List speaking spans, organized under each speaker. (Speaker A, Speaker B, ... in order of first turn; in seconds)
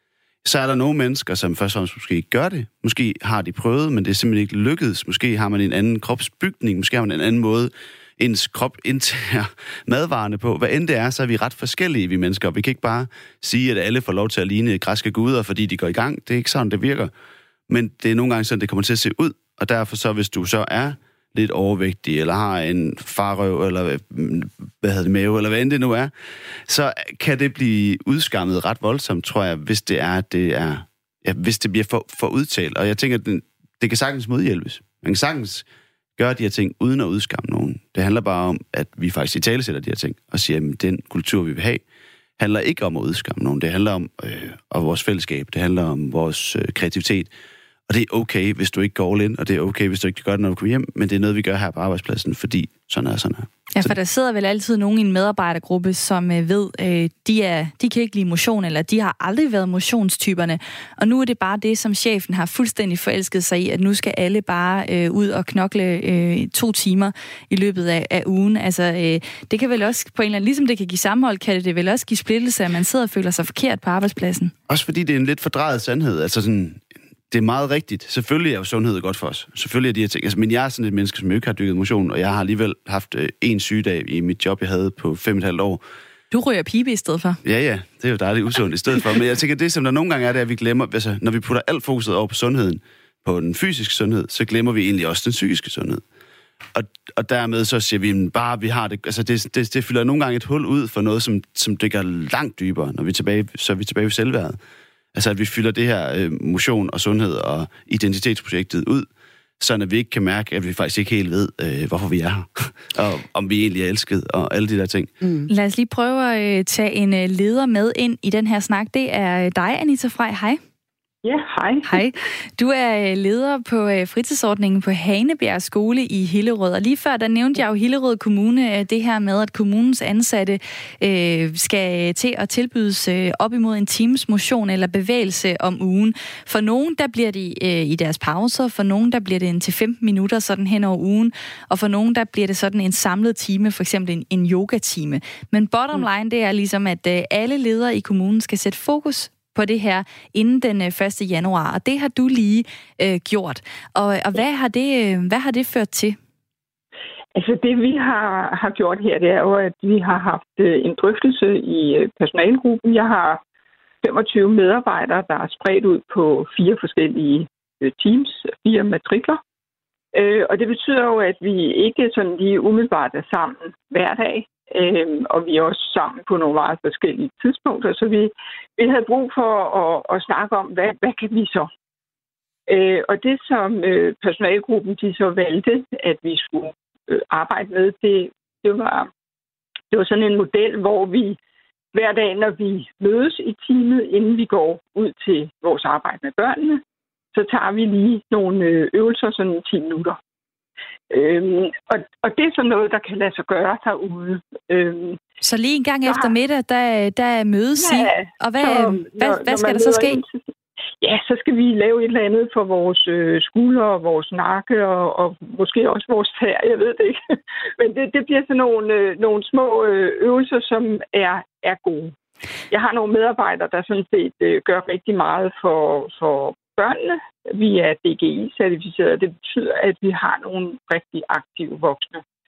Speaker A: 0.4-17.1, 17.7-26.1, 26.7-35.6, 36.2-41.8, 42.4-47.3, 47.9-53.9, 74.7-85.8, 87.4-96.0, 96.7-104.6, 105.1-109.1, 109.6-115.1
Speaker B: 53.7-74.5, 86.3-87.4, 115.5-120.6, 121.8-156.2, 205.4-210.2
Speaker C: 121.2-122.0, 157.4-163.4, 164.0-169.4, 170.1-181.7, 182.7-189.1, 189.9-191.4, 191.9-196.8, 197.3-200.2, 201.1-205.2, 206.1-206.3, 207.8-210.4, 211.0-217.2, 217.8-222.1, 222.7-232.2